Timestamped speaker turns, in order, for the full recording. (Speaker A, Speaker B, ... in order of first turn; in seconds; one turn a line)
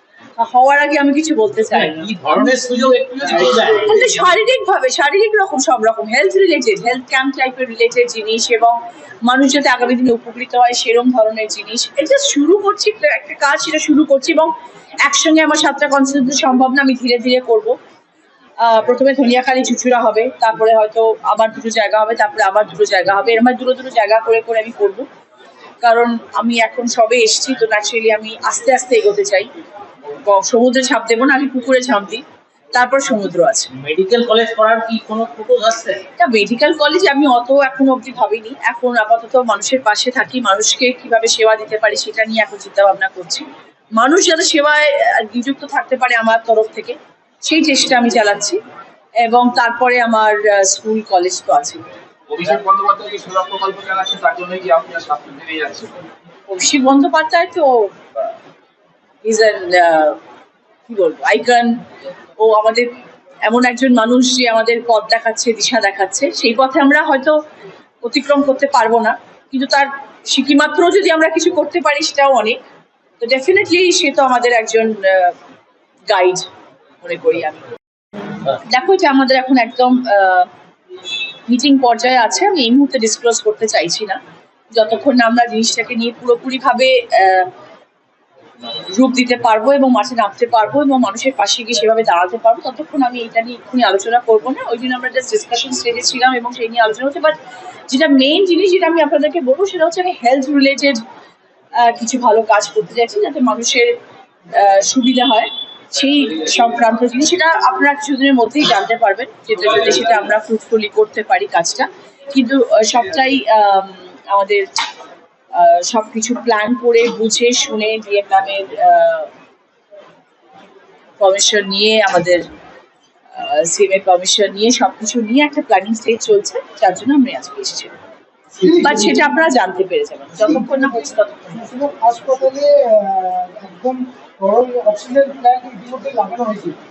Speaker A: 0.4-1.9
Speaker B: 1.7-4.1
Speaker C: 3.5-3.7
Speaker A: 3.9-14.5
Speaker A: 15.0-17.7
Speaker A: 18.6-25.1
Speaker A: 25.8-29.5
Speaker A: 30.2-33.7
Speaker B: 33.8-36.0
Speaker A: 36.2-48.6
Speaker A: 49.2-51.9
Speaker C: 52.3-56.0
Speaker A: 56.5-58.3
Speaker A: 59.2-60.2
Speaker A: 60.9-61.8
Speaker A: 62.4-62.9
Speaker A: 63.5-67.4
Speaker A: 68.0-72.6
Speaker A: 73.2-75.3
Speaker A: 76.1-76.5
Speaker A: 77.0-77.7
Speaker A: 78.6-80.5
Speaker A: 81.5-84.2
Speaker A: 84.7-87.5
Speaker A: 88.9-97.4
Speaker A: 97.9-101.0
Speaker A: 101.8-103.9
Speaker A: 104.5-114.7
Speaker A: 115.5-119.3
Speaker A: 121.2-122.5
Speaker A: 123.3-127.9
Speaker D: 128.6-129.3
Speaker A: 128.8-131.5
Speaker D: 130.4-136.8